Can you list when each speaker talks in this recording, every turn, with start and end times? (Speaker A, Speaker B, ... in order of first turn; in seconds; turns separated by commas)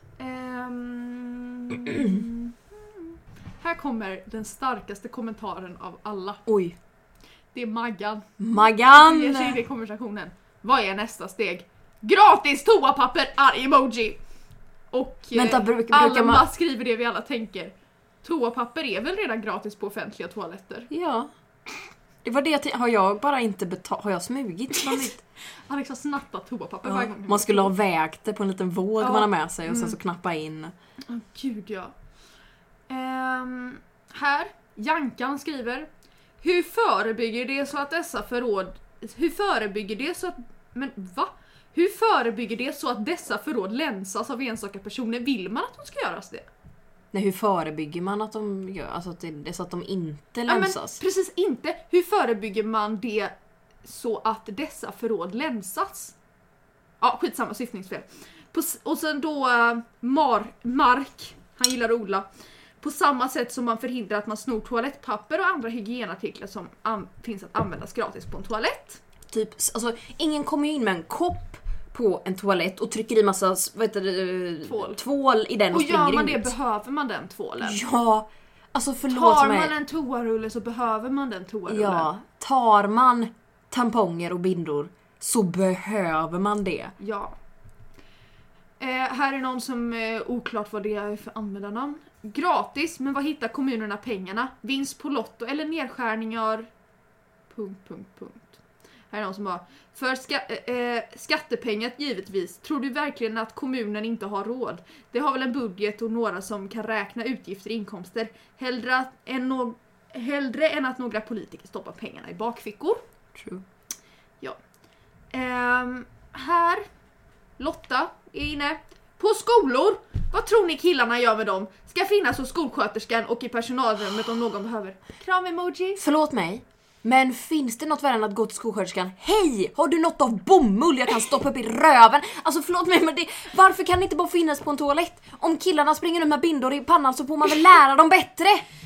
Speaker A: 0.2-6.4, Speaker B: 1.8-2.2, Speaker B: 6.5-6.8, Speaker A: 7.5-14.2, Speaker B: 8.4-9.6, Speaker A: 14.9-20.9, Speaker B: 15.3-16.4, Speaker B: 20.9-21.3, Speaker B: 22.2-25.2, Speaker A: 24.7-25.1, Speaker A: 25.6-27.7, Speaker B: 26.8-30.7, Speaker A: 29.0-30.0, Speaker A: 31.0-31.9, Speaker A: 32.9-35.9, Speaker A: 36.4-46.5, Speaker B: 47.1-51.0, Speaker A: 50.5-56.1, Speaker A: 57.0-62.3, Speaker A: 62.8-69.0, Speaker B: 69.3-76.5, Speaker A: 74.7-75.0, Speaker A: 75.7-77.8, Speaker B: 77.6-79.7, Speaker A: 79.1-82.1, Speaker B: 81.7-86.9, Speaker A: 87.0-87.3, Speaker A: 88.8-96.7, Speaker A: 97.5-98.6, Speaker A: 99.1-113.0, Speaker B: 113.3-113.6, Speaker A: 115.3-116.8, Speaker A: 117.6-126.0, Speaker B: 126.0-138.6